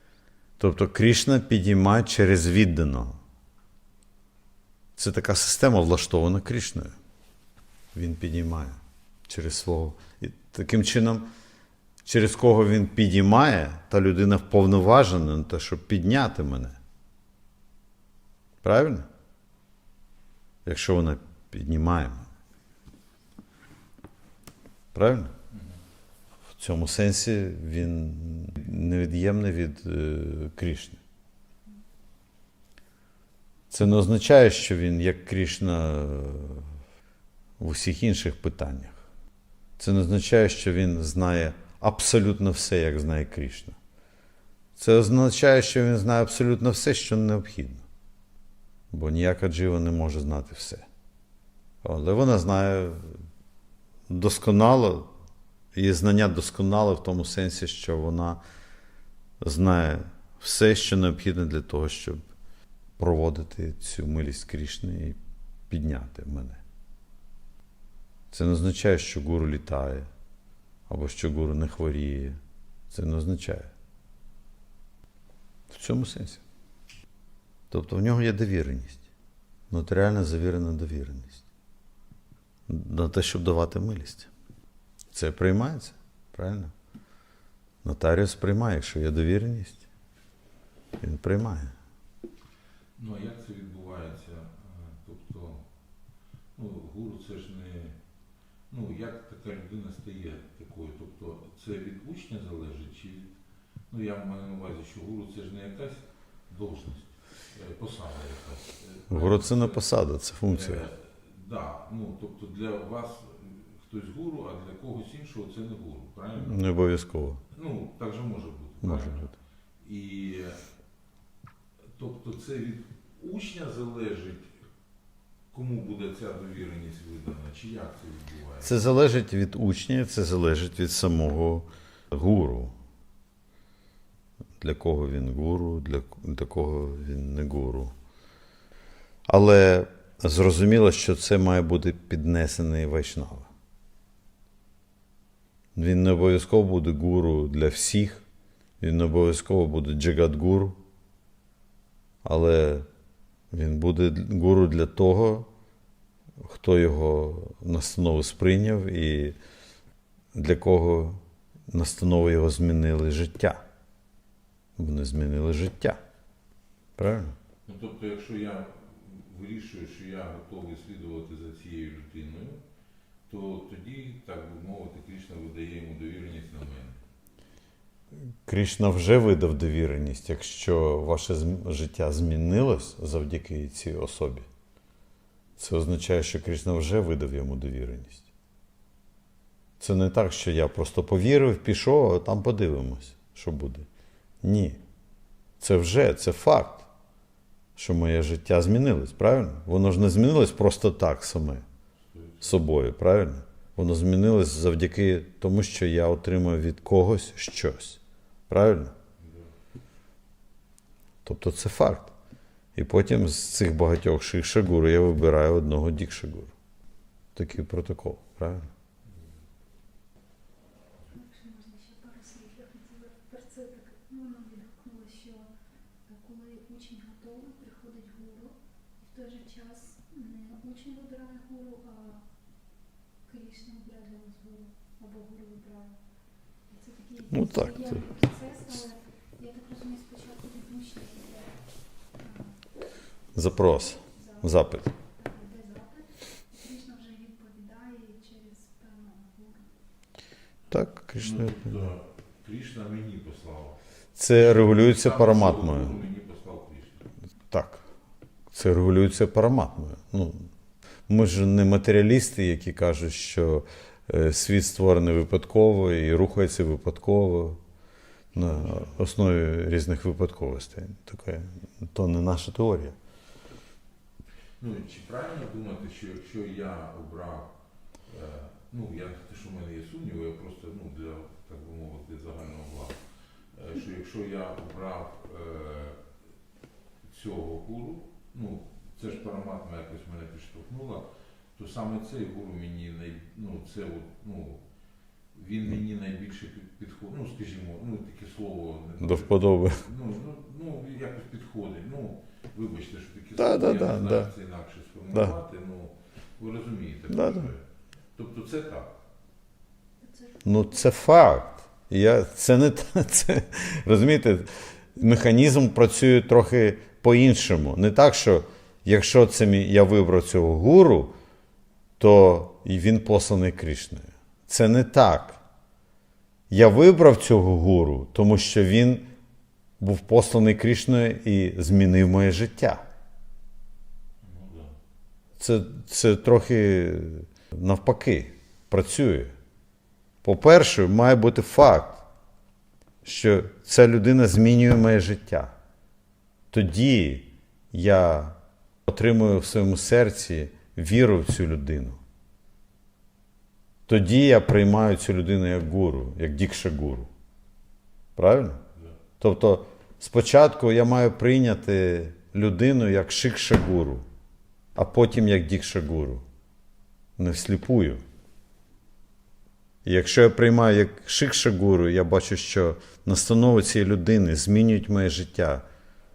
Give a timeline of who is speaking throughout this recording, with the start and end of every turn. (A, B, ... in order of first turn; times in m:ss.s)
0:00.6-0:03.2 A
0:05.0-0:06.9 A
0:07.9-0:08.8 A
0:09.3-0:11.3 A
0:12.0-0:16.8 A
0:18.6-0:19.1 A
0:20.6-0:22.3 A
0:24.9-0:25.3 A
0:26.6-0:31.0 A
0:33.7-0:36.7 A
0:37.6-0:39.0 A
0:39.8-0:43.8 A
0:44.8-0:47.8 A
0:48.9-0:50.9 A
0:51.8-0:53.2 A
0:54.1-0:55.1 A
0:55.7-0:58.4 A
0:59.4-1:02.2 A
1:03.0-1:05.2 A
1:05.7-1:06.6 A
1:08.3-1:10.1 A
1:10.9-1:12.4 A
1:12.9-1:13.7 A
1:15.7-1:16.4 A
1:17.7-1:19.0 A
1:19.7-1:21.4 A
1:22.7-1:24.3 A
1:25.1-1:26.7 A
1:27.8-1:29.8 A
1:31.0-1:31.7 A
1:33.0-1:35.6 B
1:36.6-1:38.0 B
1:38.7-1:43.3 B
1:43.9-1:49.8 B
1:49.1-1:50.8 A
1:50.5-1:56.6 B
1:56.4-1:57.4 A
1:57.5-2:00.6 B
1:58.8-1:59.3 A
2:01.9-2:04.5 B
2:05.5-2:08.8 B
2:08.6-2:12.7 A
2:14.6-2:17.9 A
2:19.3-2:23.5 A
2:25.8-2:28.2 A
2:28.8-2:30.8 A
2:32.2-2:32.9 A
2:33.5-2:35.5 A
2:36.4-2:39.4 A
2:40.3-2:43.6 A
2:44.8-2:46.0 A
2:47.0-2:47.4 A
2:47.6-2:52.6 B
2:53.3-2:57.0 B
2:58.4-3:04.5 A
3:05.6-3:08.2 A
3:09.8-3:13.9 A
3:14.4-3:14.8 A
3:15.6-3:16.9 A
3:17.8-3:21.6 A
3:22.0-3:22.6 B
3:22.4-3:28.9 A
3:29.2-3:29.5 B
3:31.2-3:32.1 A
3:32.8-3:36.5 A
3:37.4-3:38.7 A
3:39.1-3:39.3 B
3:41.1-3:45.5 C
3:46.1-3:52.3 C
3:53.2-3:56.0 C
3:56.7-4:01.6 C
3:57.3-3:58.0 A
4:02.2-4:02.6 C
4:03.4-4:04.9 A
4:03.6-4:09.7 C
4:10.7-4:11.9 A
4:11.2-4:13.8 B
4:14.2-4:15.9 A
4:14.3-4:17.0 B
4:17.5-4:17.8 A
4:18.5-4:20.5 A
4:21.1-4:27.6 A
4:28.3-4:33.0 A
4:28.4-4:29.0 B
4:34.6-4:37.5 B
4:38.1-4:46.0 B
4:47.0-4:54.6 B
4:55.3-5:08.9 B
4:59.0-4:59.8 A
5:03.4-5:04.3 A
5:07.1-5:07.5 A
5:10.0-5:10.7 C
5:10.4-5:21.1 A
5:22.0-5:25.4 A
5:26.5-5:29.1 A
5:29.8-5:32.8 A
5:34.2-5:34.8 B
5:35.4-5:39.3 A
5:40.2-5:42.0 A
5:43.0-5:45.5 A
5:46.5-5:48.4 A
5:48.9-5:52.0 A
5:53.9-5:57.1 A
5:58.2-5:58.6 A
5:59.2-6:04.0 A
6:04.8-6:06.2 A
6:07.2-6:08.0 A
6:09.8-6:15.6 A